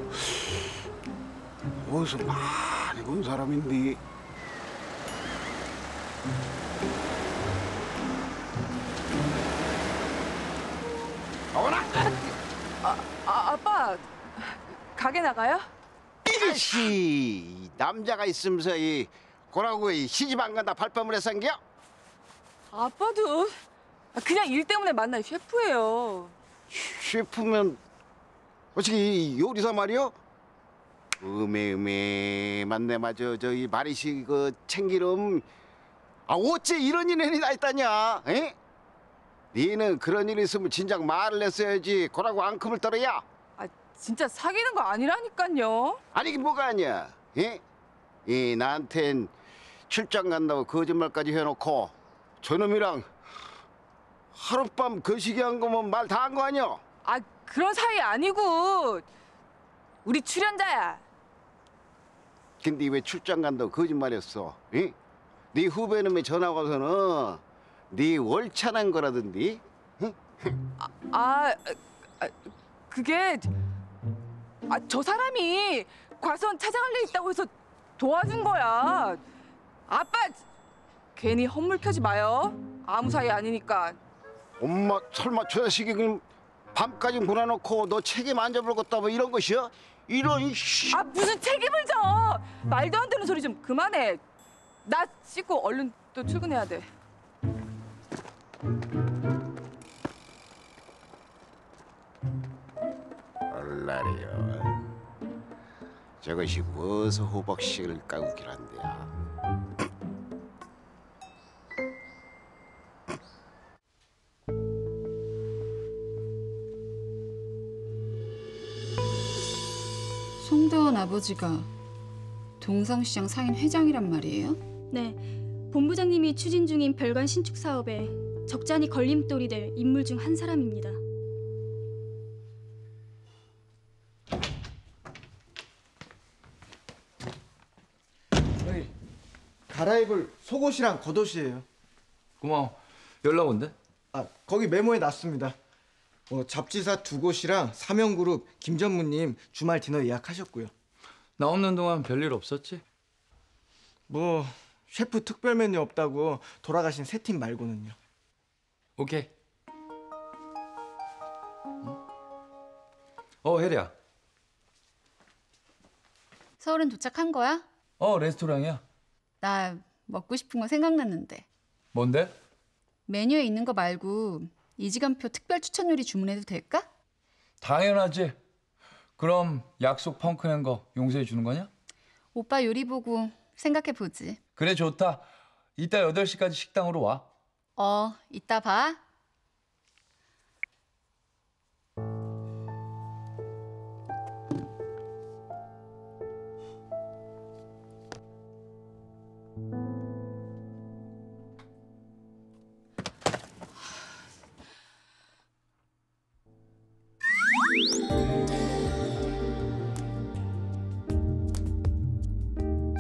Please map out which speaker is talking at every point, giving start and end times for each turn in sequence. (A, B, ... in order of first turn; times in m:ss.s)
0:01.8-0:04.0 A
0:11.5-0:12.1 A
0:12.8-0:15.7 B
0:16.2-0:21.6 A
0:22.7-0:23.6 B
0:24.1-0:26.4 B
0:26.7-0:27.8 A
0:28.8-0:30.2 A
0:31.2-0:35.4 A
0:36.3-0:38.6 A
0:39.5-0:43.2 A
0:43.6-0:46.0 B
0:46.1-0:47.6 A
0:48.3-0:49.3 A
0:49.9-0:53.1 A
0:54.3-0:56.8 A
0:57.0-0:59.1 B
1:00.0-1:01.0 B
1:02.6-1:05.0 A
1:05.5-1:10.5 A
1:10.8-1:13.5 B
1:14.7-1:19.2 B
1:19.9-1:20.4 B
1:21.2-1:24.0 B
1:24.6-1:31.0 A
1:30.9-1:34.2 B
1:34.8-1:36.9 B
1:43.5-1:44.8 A
1:46.2-1:49.1 A
2:00.4-2:01.7 C
2:02.6-2:04.6 C
2:04.9-2:11.0 D
2:18.6-2:18.9 E
2:19.7-2:21.7 E
2:22.4-2:23.8 F
2:24.1-2:25.6 E
2:26.3-2:30.7 E
2:31.4-2:32.8 F
2:34.1-2:38.0 E
2:39.0-2:39.3 F
2:43.4-2:43.9 F
2:46.6-2:47.7 C
2:48.0-2:48.8 F
2:49.4-2:51.5 C
2:51.9-2:52.3 F
2:53.1-2:56.9 C
2:57.6-2:58.4 F
2:59.2-3:01.7 F
3:02.3-3:04.4 C
3:04.6-3:05.3 F
3:05.8-3:07.3 F
3:07.8-3:09.0 C